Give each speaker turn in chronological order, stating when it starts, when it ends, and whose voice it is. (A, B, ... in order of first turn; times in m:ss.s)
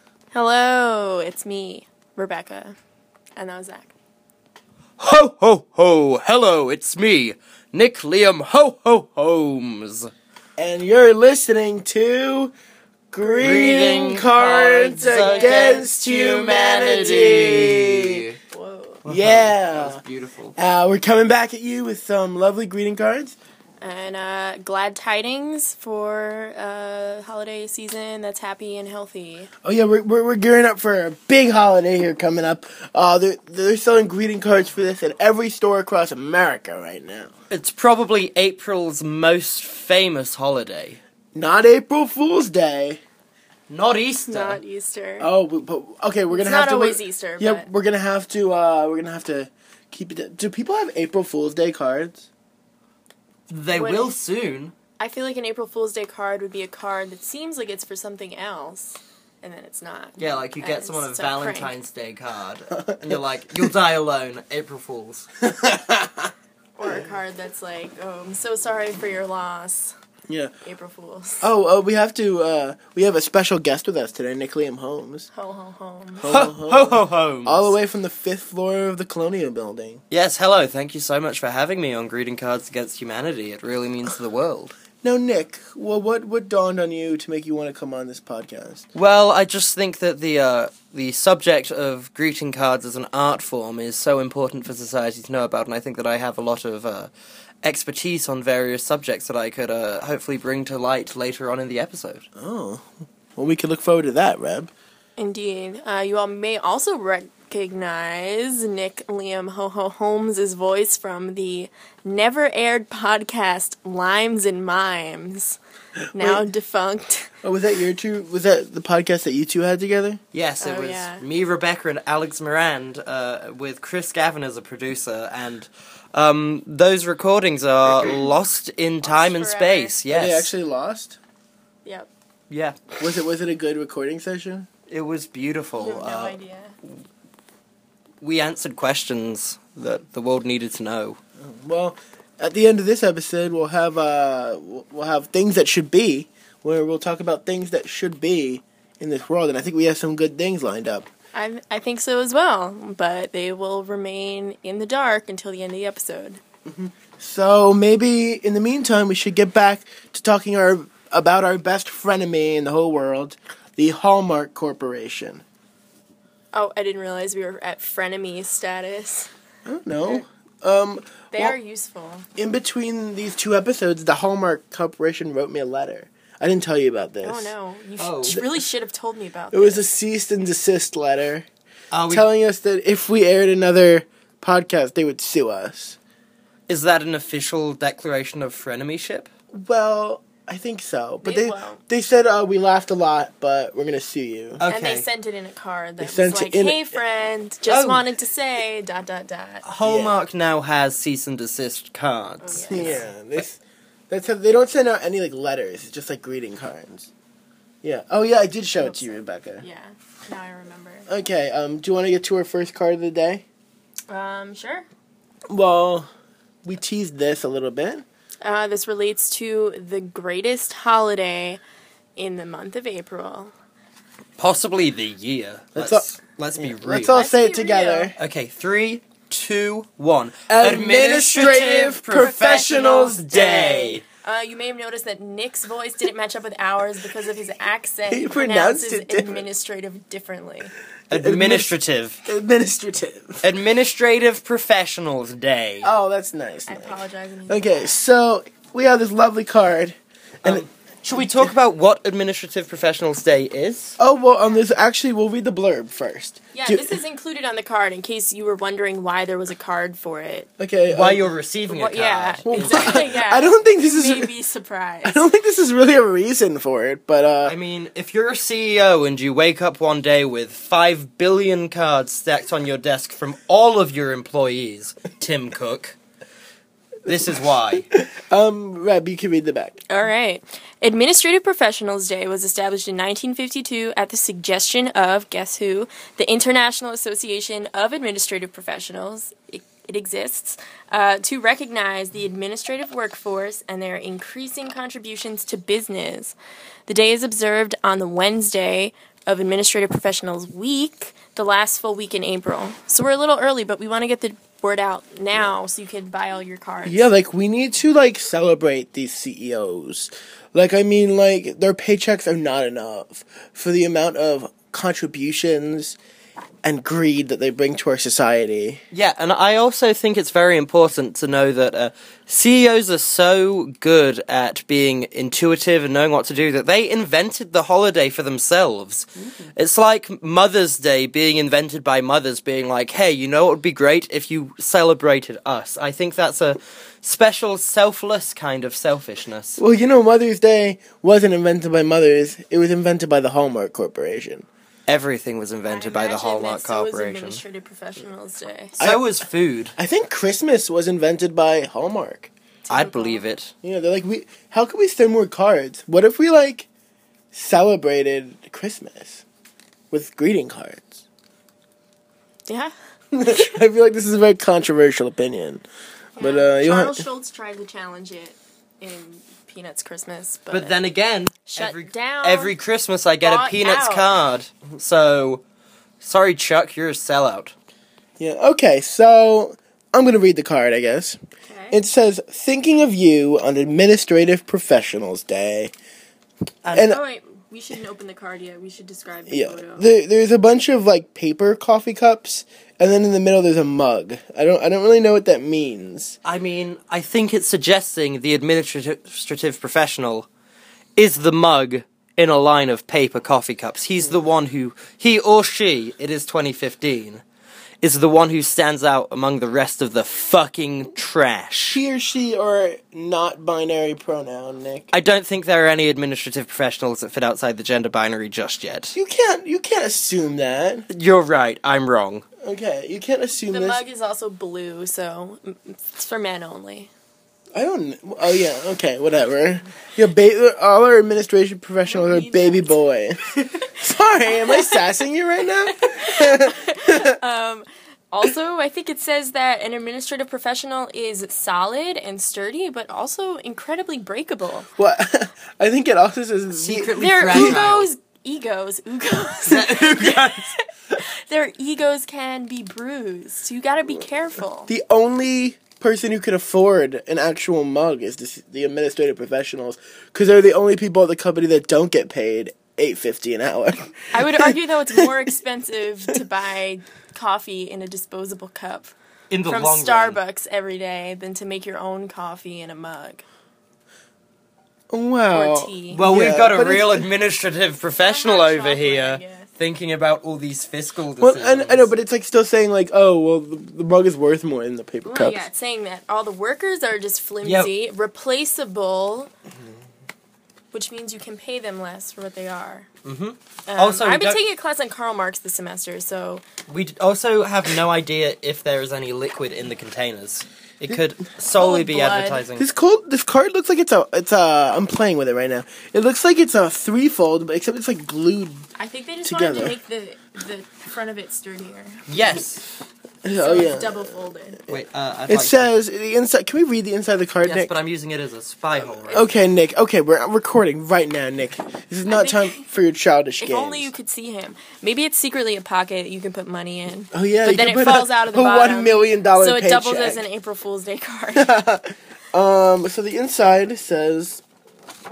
0:00.3-0:02.8 A
0:03.4-0:03.9 A
0:05.0-0:10.1 B
0:10.6-0:12.6 C
0:13.1-0:18.2 C
0:13.2-0:14.0 A
0:13.4-0:18.4 B
0:15.0-0:17.5 A
0:18.5-0:19.0 A
0:19.0-0:20.6 B
0:19.1-0:20.0 C
0:20.6-0:23.4 C
0:23.8-0:29.5 A
0:29.6-0:37.3 C
0:37.5-0:41.0 B
0:41.4-0:43.0 C
0:43.7-0:44.6 B
0:44.3-0:45.3 A
0:45.2-0:52.3 C
0:46.3-0:47.7 A
0:53.5-0:54.7 B
0:53.7-0:54.1 A
0:55.0-1:01.7 A
1:00.2-1:05.3 B
1:02.9-1:03.7 C
1:05.4-1:06.3 C
1:06.8-1:09.9 A
1:10.6-1:11.5 A
1:11.4-1:15.3 C
1:15.3-1:16.3 A
1:16.2-1:20.0 C
1:16.3-1:17.7 B
1:20.1-1:24.8 B
1:25.0-1:28.8 C
1:29.0-1:37.1 B
1:37.6-1:42.2 B
1:42.4-1:44.7 C
1:45.2-1:55.6 A
1:56.1-1:56.4 C
1:56.1-1:57.3 A
1:57.4-2:00.2 C
2:00.3-2:10.5 B
2:00.6-2:01.2 A
2:09.0-2:10.0 A
2:10.1-2:11.2 C
2:11.8-2:12.1 A
2:12.5-2:13.0 B
2:13.0-2:14.7 C
2:14.9-2:16.4 B
2:15.8-2:16.8 A
2:18.2-2:21.2 B
2:21.4-2:31.1 C
2:31.3-2:36.4 A
2:36.7-2:45.4 C
2:46.5-2:49.3 A
2:49.6-2:51.6 C
2:51.3-2:52.3 A
2:52.4-2:57.5 C
2:57.2-2:59.8 A
2:58.0-2:58.4 B
2:59.5-3:01.5 C
3:01.9-3:02.3 B
3:02.1-3:06.0 C
3:06.7-3:09.3 B
3:09.5-3:14.6 C
3:11.2-3:11.8 A
3:14.6-3:15.1 B
3:14.7-3:19.6 A
3:16.0-3:16.8 C
3:17.7-3:18.1 B
3:19.6-3:23.1 B
3:19.8-3:20.2 C
3:22.4-3:23.1 A
3:22.7-3:23.6 C
3:24.1-3:27.1 C
3:27.8-3:29.6 C
3:28.8-3:31.1 A
3:31.1-3:33.4 C
3:34.1-3:34.9 A
3:35.5-3:36.1 C
3:36.6-3:38.0 C
3:38.4-3:41.6 A
3:42.2-3:43.5 A
3:44.4-3:47.2 B
3:45.8-3:46.0 C
3:46.6-3:48.2 C
3:47.1-3:48.2 A
3:48.2-3:54.0 B
3:50.5-3:53.2 C
3:51.4-4:00.7 A
3:58.1-3:59.4 C
4:01.1-4:02.2 B
4:01.1-4:01.7 C
4:02.2-4:03.4 C
4:03.4-4:05.9 B
4:05.8-4:10.6 C
4:06.7-4:07.9 A
4:10.4-4:14.0 B
4:11.2-4:11.5 C
4:14.0-4:17.0 C
4:16.5-4:20.5 A
4:20.6-4:21.2 C
4:20.9-4:23.2 B
4:21.7-4:25.3 A
4:22.5-4:24.3 C
4:25.0-4:27.6 C
4:27.4-4:36.0 B
4:37.0-4:37.9 B
4:38.0-4:39.8 C
4:39.9-4:56.4 A
4:56.9-5:07.1 A
5:06.8-5:16.0 C
5:16.6-5:18.8 C
5:18.9-5:39.6 B
5:29.2-5:29.5 C
5:39.6-5:44.5 C
5:44.9-5:47.4 B
5:45.7-5:48.8 A
5:48.8-5:49.1 C
5:48.8-5:49.8 B
5:49.8-5:52.3 C
5:52.6-5:53.2 A
5:52.7-5:53.5 B
5:53.6-5:56.7 C
5:57.3-5:59.2 C
5:59.9-6:01.0 C
6:03.1-6:05.6 C
6:06.2-6:07.0 C
6:06.2-6:10.8 A
6:10.5-6:15.4 B
6:11.5-6:12.5 A
6:13.2-6:14.1 A
6:16.0-6:17.5 B
6:18.2-6:21.2 C
6:21.5-6:21.8 A
6:21.7-6:25.7 C
6:26.6-6:27.0 B
6:26.7-6:27.0 C
6:26.8-6:29.9 A
6:29.3-6:36.2 C
6:36.2-6:40.3 B
6:41.0-6:47.2 B
6:47.8-6:51.8 B
6:51.7-6:54.9 C
6:54.9-6:59.0 B
6:58.9-7:00.9 C
7:00.9-7:02.2 B
7:02.4-7:03.8 C
7:03.5-7:06.9 A
7:07.5-7:17.2 C
7:11.9-7:12.8 A
7:14.3-7:14.8 A
7:15.7-7:24.7 A
7:24.8-7:27.7 C
7:26.5-7:27.9 B
7:27.0-7:34.7 A
7:29.4-7:30.6 B
7:34.7-7:45.1 C
7:44.1-7:49.0 A
7:49.3-7:50.2 B
7:49.5-7:53.2 A
7:54.9-7:57.1 C
7:55.3-7:56.1 A
7:55.9-8:01.9 B
7:58.0-7:59.5 A
8:01.2-8:05.5 C
8:05.0-8:09.3 A
8:07.4-8:07.7 B
8:10.7-8:12.9 A
8:13.0-8:14.4 B
8:13.7-8:16.4 A
8:16.7-8:22.7 B
8:21.5-8:22.4 A
8:22.6-8:28.7 C
8:28.8-8:32.4 A
8:29.2-8:29.8 C
8:32.1-8:32.6 B
8:33.2-8:34.2 C
8:33.4-8:34.6 A
8:34.7-8:35.7 B
8:35.3-8:37.7 C
8:37.4-8:39.3 B
8:39.1-8:39.4 A
8:39.1-8:43.9 C
8:42.0-8:42.7 A
8:43.4-8:51.6 A
8:47.1-8:50.2 C
8:51.4-8:54.4 C